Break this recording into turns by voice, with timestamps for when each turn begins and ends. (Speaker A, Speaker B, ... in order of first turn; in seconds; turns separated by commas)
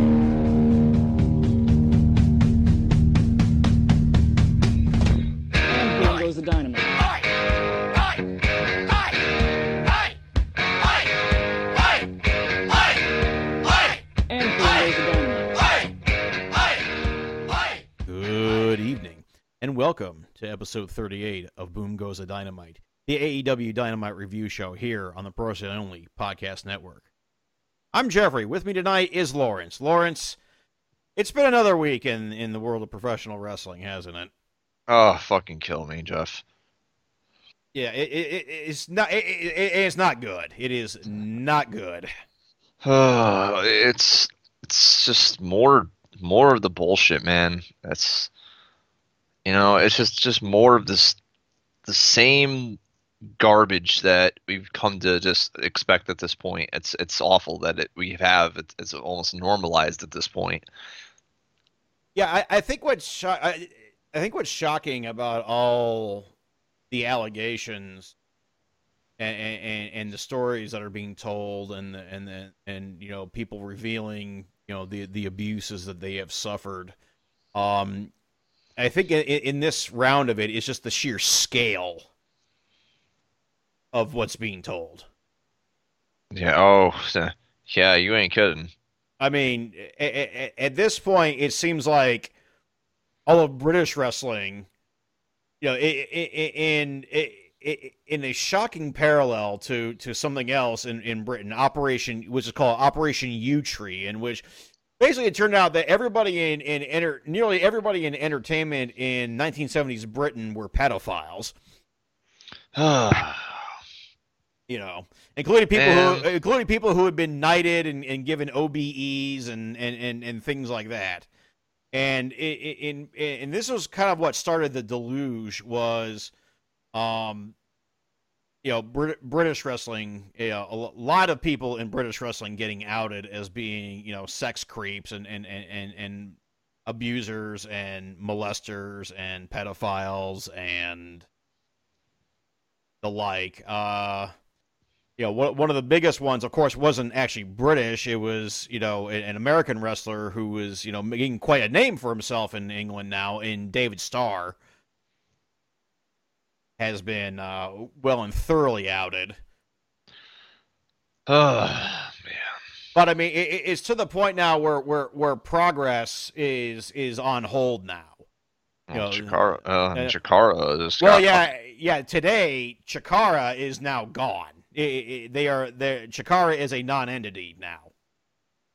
Speaker A: 5.7-7.0, Speaker A: 14.3-15.6, Speaker B: 18.1-27.0, Speaker B: 27.9-30.4, Speaker B: 31.2-34.3, Speaker C: 34.9-36.4, Speaker B: 37.7-42.1, Speaker C: 42.8-48.3, Speaker C: 49.5-51.2, Speaker C: 51.9-52.8, Speaker C: 53.4-60.7, Speaker B: 62.1-66.3, Speaker B: 66.9-68.1, Speaker B: 69.2-77.0, Speaker B: 77.5-78.1, Speaker B: 78.8-82.0, Speaker B: 83.9-85.0, Speaker C: 86.3-88.7, Speaker B: 89.2-92.3, Speaker B: 93.3-94.7, Speaker B: 95.6-104.5, Speaker B: 105.0-111.5, Speaker C: 112.8-113.7, Speaker B: 114.7-121.3, Speaker C: 115.7-116.2, Speaker B: 121.9-126.3, Speaker B: 126.9-127.5, Speaker B: 128.6-141.2, Speaker B: 143.0-144.3, Speaker B: 145.2-154.6, Speaker B: 156.8-159.4, Speaker C: 161.3-162.5, Speaker B: 162.9-168.2, Speaker C: 168.9-171.5, Speaker B: 168.9-169.4, Speaker B: 171.0-177.9